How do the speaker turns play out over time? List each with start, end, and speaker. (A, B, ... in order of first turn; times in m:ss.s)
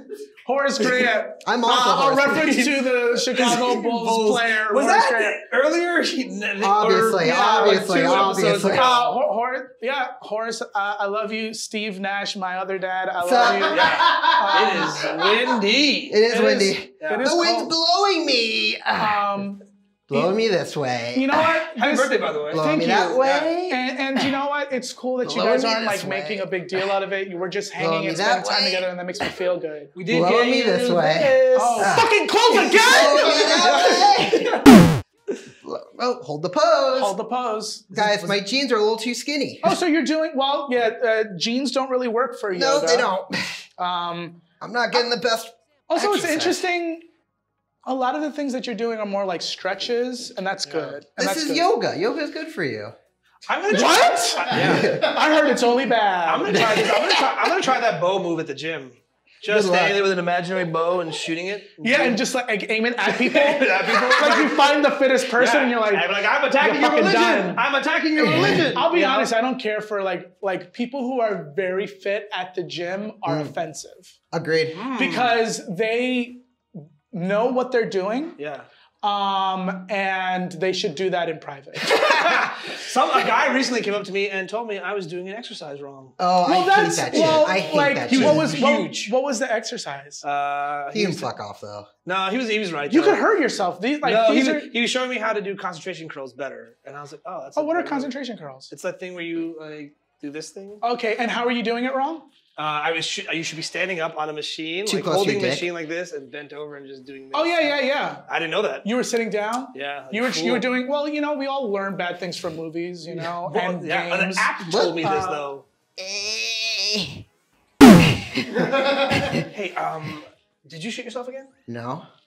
0:00.4-0:05.4 A
0:01.4-0:02.6 B
0:02.3-0:09.2 C
0:06.6-0:08.9 B
0:07.2-0:15.1 A
0:13.2-0:15.5 B
0:13.7-0:17.3 C
0:16.1-0:19.5 B
0:17.0-0:17.7 A
0:19.0-0:20.3 A
0:20.1-0:21.6 B
0:21.1-0:29.9 A
0:21.7-0:22.6 C
0:22.5-0:24.3 B
0:23.2-0:23.5 C
0:25.2-0:26.9 B
0:27.8-0:28.9 B
0:29.9-0:32.0 C
0:30.1-0:34.6 B
0:31.5-0:34.1 A
0:33.0-0:34.6 C
0:35.6-0:37.2 B
0:36.9-0:38.4 A
0:37.9-0:39.8 B
0:39.6-0:43.1 A
0:42.5-0:43.6 B
0:43.8-0:44.4 A
0:44.6-0:46.6 B
0:45.9-0:47.0 A
0:47.8-0:51.7 A
0:50.6-0:51.0 C
0:51.1-0:52.9 B
0:53.5-0:55.0 C
0:53.7-0:56.9 A
0:53.7-0:55.2 B
0:56.2-1:02.2 C
0:56.5-0:57.2 B
0:59.4-1:00.0 B
1:01.8-1:07.6 A
1:03.0-1:09.3 C
1:08.2-1:08.8 B
1:08.4-1:14.1 A
1:13.2-1:13.5 B
1:14.3-1:14.8 B
1:14.7-1:15.4 C
1:14.9-1:16.4 A
1:17.1-1:18.4 A
1:18.4-1:18.7 C
1:19.0-1:22.0 A
1:21.9-1:26.2 C
1:26.2-1:28.6 B
1:26.4-1:30.2 A
1:27.1-1:29.1 C
1:30.2-1:31.3 C
1:30.9-1:31.9 B
1:32.0-1:33.2 C
1:32.9-1:34.7 A
1:34.0-1:38.1 C
1:37.6-1:38.7 A
1:38.7-1:40.8 C
1:40.8-1:42.3 A
1:42.6-1:48.9 C
1:44.8-1:45.7 B
1:47.3-1:48.2 A
1:48.8-1:55.4 A
1:49.7-1:50.7 C
1:53.1-1:55.6 C
1:54.7-1:55.1 B
1:56.0-1:57.2 B
1:58.2-1:59.4 B
1:59.5-2:01.5 C
2:01.7-2:02.1 B